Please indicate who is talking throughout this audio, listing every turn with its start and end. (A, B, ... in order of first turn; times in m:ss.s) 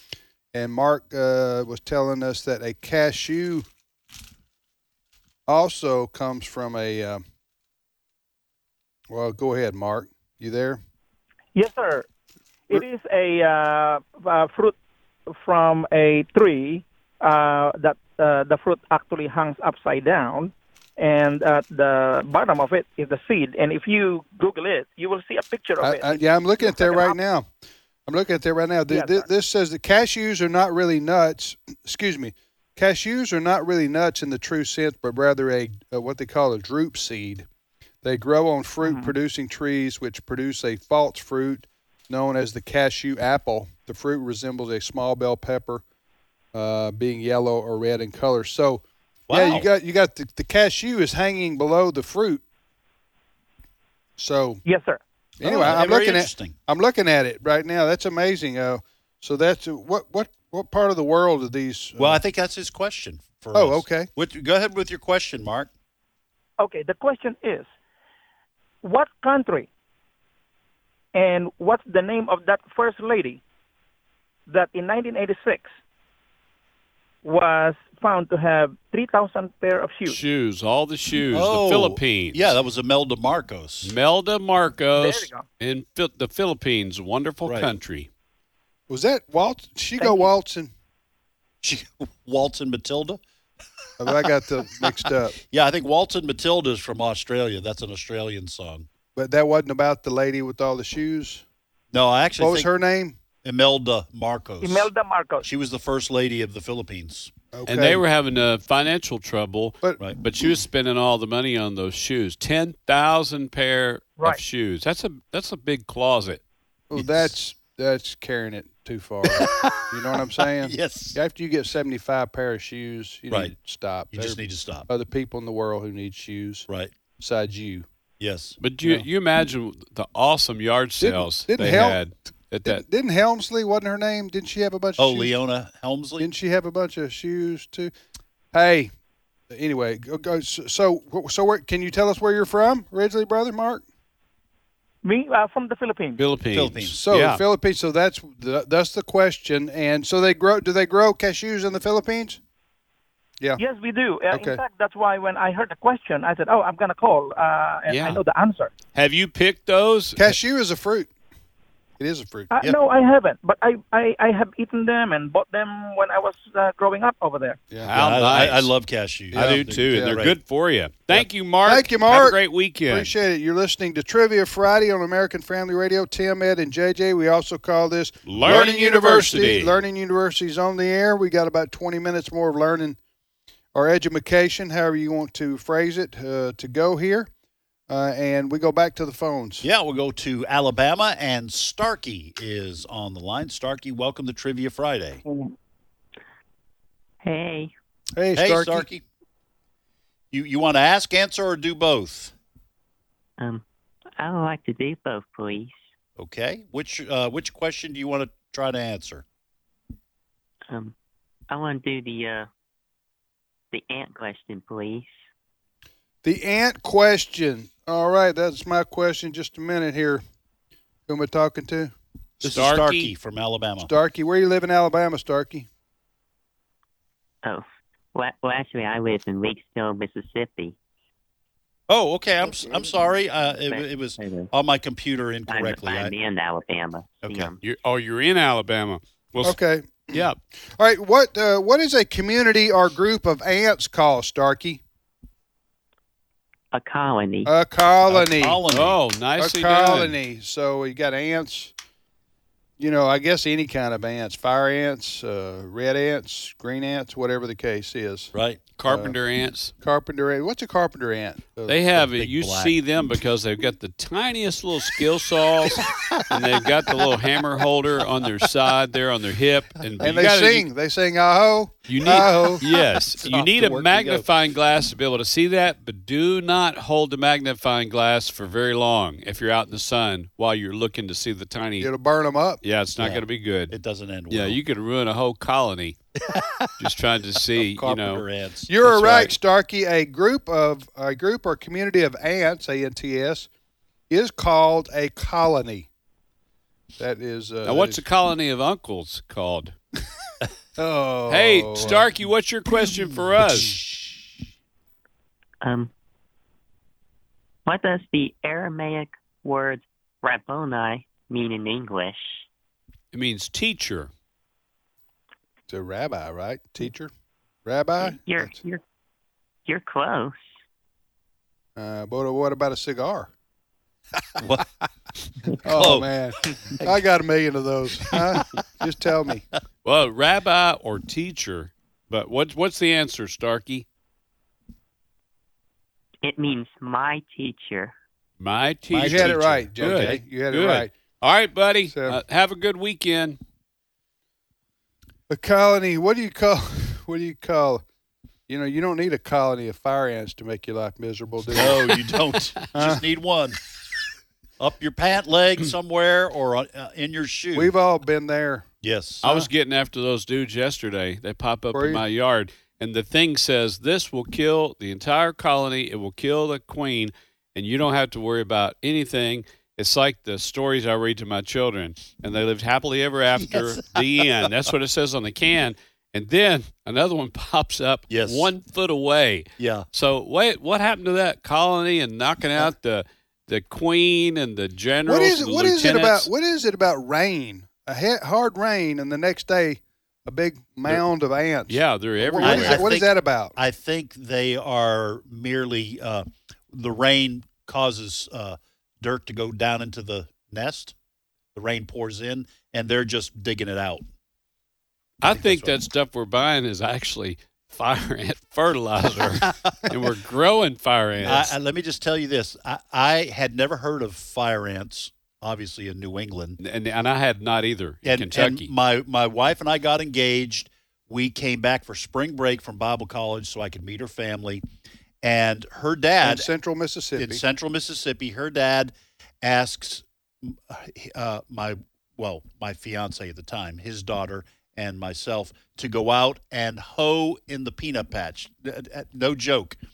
0:00.5-0:03.6 A
0:05.5-0:07.2 A
0:09.1-0:10.8 A
0:11.5-0:12.1 B
0:12.7-0:14.8 B
0:15.3-0:27.2 B
0:25.8-0:27.4 A
0:28.1-0:37.4 A
0:28.9-0:29.3 B
0:38.0-0:45.8 A
0:38.8-0:39.1 B
0:46.5-0:52.4 A
0:49.3-0:49.7 C
0:54.2-0:54.6 A
0:54.6-0:55.0 B
0:55.4-1:02.2 A
0:55.4-0:56.5 C
1:02.0-1:05.7 C
1:03.5-1:04.1 A
1:06.6-1:07.7 B
1:08.8-1:09.7 B
1:11.1-1:13.4 B
1:14.5-1:15.7 B
1:17.2-1:20.2 B
1:20.0-1:22.5 D
1:21.3-1:23.9 C
1:23.8-1:28.1 D
1:25.0-1:25.4 B
1:28.9-1:30.7 A
1:30.0-1:30.3 B
1:31.6-1:33.2 C
1:34.0-1:35.4 A
1:34.8-1:38.9 C
1:39.1-1:41.4 A
1:41.9-1:42.7 C
1:42.4-1:43.2 A
1:43.4-1:44.9 C
1:44.6-1:45.4 B
1:45.4-1:47.3 C
1:47.5-1:48.0 A
1:47.7-1:56.4 D
1:56.9-2:06.7 A
1:56.9-1:57.3 C
1:59.2-2:01.2 C
2:03.3-2:03.5 C
2:04.1-2:04.9 C
2:07.2-2:07.8 A
2:08.2-2:08.6 C
2:08.6-2:12.8 D
2:11.0-2:12.0 A
2:12.6-2:15.3 A
2:15.0-2:16.3 C
2:16.2-2:17.9 A
2:18.5-2:18.9 A
2:19.5-2:23.8 A
2:25.0-2:26.2 B
2:26.2-2:27.4 D
2:26.5-2:27.0 C
2:26.9-2:32.4 A
2:33.6-2:38.7 B
2:34.3-2:34.6 A
2:37.9-2:38.2 D
2:38.9-2:40.4 D
2:40.2-2:41.1 A
2:42.0-2:42.5 A
2:42.5-2:47.6 B
2:47.8-2:48.7 D
2:47.9-2:50.4 C
2:49.3-2:53.1 D
2:49.3-2:50.2 A
2:51.6-3:03.0 A
2:58.2-2:59.8 D
3:03.7-3:07.3 A
3:07.9-3:09.6 A
3:09.6-3:15.2 C
3:15.2-3:15.5 B
3:17.2-3:17.7 E
3:18.2-3:18.9 A
3:18.3-3:19.0 C
3:20.3-3:22.3 C
3:24.2-3:25.9 E
3:26.2-3:29.2 C
3:30.7-3:30.9 E
3:31.5-3:32.5 E
3:33.7-3:35.2 E
3:36.2-3:40.2 A
3:41.1-3:41.9 A
3:42.4-3:43.9 C
3:42.4-3:43.1 D
3:43.8-3:45.7 A
3:47.4-3:50.7 E
3:51.9-3:56.1 C
3:52.5-3:54.5 E
3:55.5-3:57.6 E
3:57.6-3:59.6 D
3:59.4-4:04.8 A
4:00.1-4:00.4 D
4:06.7-4:07.5 E
4:07.4-4:08.6 A
4:08.1-4:09.0 C
4:08.7-4:10.2 D
4:09.4-4:11.7 A
4:12.8-4:18.3 A
4:18.3-4:18.6 C
4:18.8-4:19.7 D
4:18.9-4:19.2 A
4:19.8-4:21.8 A
4:21.7-4:30.7 D
4:21.9-4:22.7 C
4:25.8-4:26.1 C
4:30.0-4:32.6 A
4:31.9-4:41.9 D
4:32.7-4:34.2 C
4:41.8-4:42.6 A
4:42.6-4:43.7 D
4:43.0-4:44.6 C
4:44.3-4:46.0 D
4:46.3-4:46.7 C
4:46.8-4:48.2 D
4:47.5-4:48.7 C
4:48.7-4:53.5 A
4:48.8-4:49.3 D
4:54.1-4:55.9 A
4:57.0-4:58.0 A
4:57.6-4:59.7 D
5:00.8-5:02.1 A
5:01.3-5:03.7 D
5:03.6-5:04.0 C
5:05.6-5:05.9 E
5:07.6-5:12.4 E
5:13.1-5:14.1 D
5:15.7-5:17.1 A
5:17.6-5:18.6 A
5:18.0-5:18.8 E
5:19.6-5:20.4 E
5:21.8-5:23.3 A
5:24.4-5:24.7 C
5:25.6-5:26.1 C
5:25.6-5:29.4 A
5:26.7-5:27.0 C
5:28.1-5:28.4 C
5:29.8-5:33.8 D
5:36.2-5:37.9 E
5:38.4-5:43.4 D
5:38.9-5:40.2 C
5:38.9-5:40.9 A
5:41.9-5:42.2 A
5:45.3-5:47.8 A
5:48.5-5:51.9 A
5:51.5-5:53.6 C
5:52.7-5:53.0 A
5:54.6-5:57.7 C
5:57.5-5:58.6 A
5:58.8-5:59.2 C
5:59.2-6:26.3 D
6:01.7-6:02.0 A
6:13.4-6:14.2 C
6:18.1-6:18.5 C
6:19.6-6:19.8 C
6:25.0-6:33.6 A
6:31.7-6:32.8 D
6:32.4-6:40.9 C
6:41.5-6:44.0 C
6:45.2-6:51.5 D
6:45.2-6:45.8 C
6:49.5-6:49.9 C
6:51.2-6:56.6 C
6:56.6-6:58.7 D
6:58.0-7:04.6 C
7:05.2-7:06.5 C
7:06.2-7:07.4 A
7:07.2-7:19.8 C